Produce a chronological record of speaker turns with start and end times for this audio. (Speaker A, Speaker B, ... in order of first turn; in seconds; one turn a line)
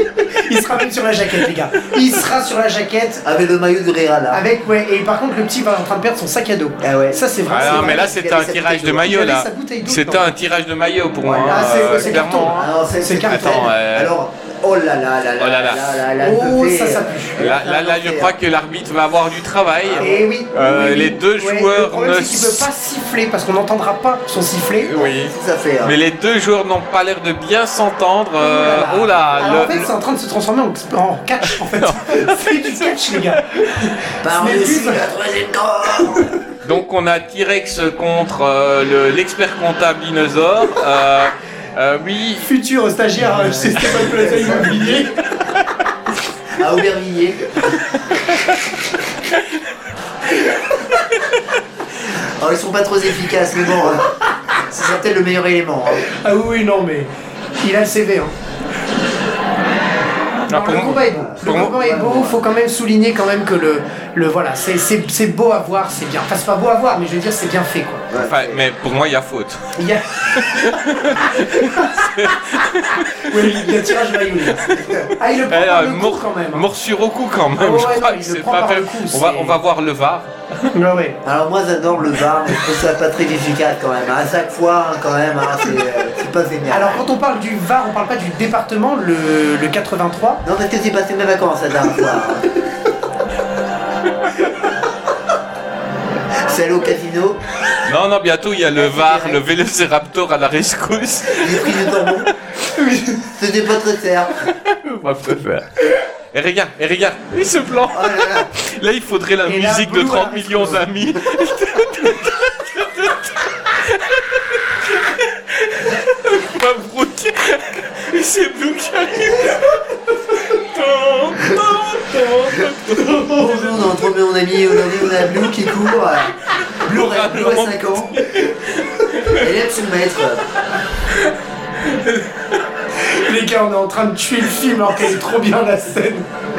Speaker A: 0.5-3.2
Speaker B: 3.2-4.4
Speaker A: 4.3-8.1
Speaker B: 6.8-9.1
Speaker C: 7.5-12.7
Speaker A: 9.0-10.2
Speaker B: 11.2-18.4
Speaker A: 11.3-13.7
Speaker C: 13.3-14.1
Speaker C: 15.4-16.0
Speaker A: 16.2-17.4
Speaker C: 17.4-22.7
Speaker B: 19.8-20.2
Speaker A: 20.0-24.9
Speaker C: 24.9-29.9
Speaker B: 24.9-26.0
Speaker A: 28.4-35.0
Speaker C: 31.4-33.9
Speaker B: 34.2-36.4
Speaker C: 36.6-42.5
Speaker A: 42.4-45.1
Speaker B: 43.2-45.0
Speaker B: 46.5-47.4
Speaker B: 52.1-56.1
Speaker A: 56.1-57.1
Speaker A: 57.6-58.3
Speaker A: 60.5-68.1
Speaker C: 60.5-61.8
Speaker B: 61.0-62.4
Speaker B: 68.1-68.6
Speaker C: 68.2-69.6
Speaker A: 69.8-72.3
Speaker C: 70.3-73.5
Speaker A: 73.2-76.6
Speaker C: 74.6-80.3
Speaker A: 77.6-79.6
Speaker A: 80.7-81.2
Speaker B: 81.2-87.0
Speaker A: 86.7-90.4
Speaker B: 90.4-92.5
Speaker B: 96.3-97.4
Speaker C: 97.8-101.7
Speaker B: 98.7-99.4
Speaker B: 101.3-102.3
Speaker A: 102.7-103.2
Speaker B: 103.2-104.4
Speaker C: 104.5-119.8
Speaker B: 107.9-108.5
Speaker A: 109.4-110.8
Speaker C: 120.3-123.8
Speaker B: 123.2-128.2
Speaker C: 126.8-129.4
Speaker B: 129.3-130.4
Speaker C: 131.9-132.2
Speaker A: 133.0-136.2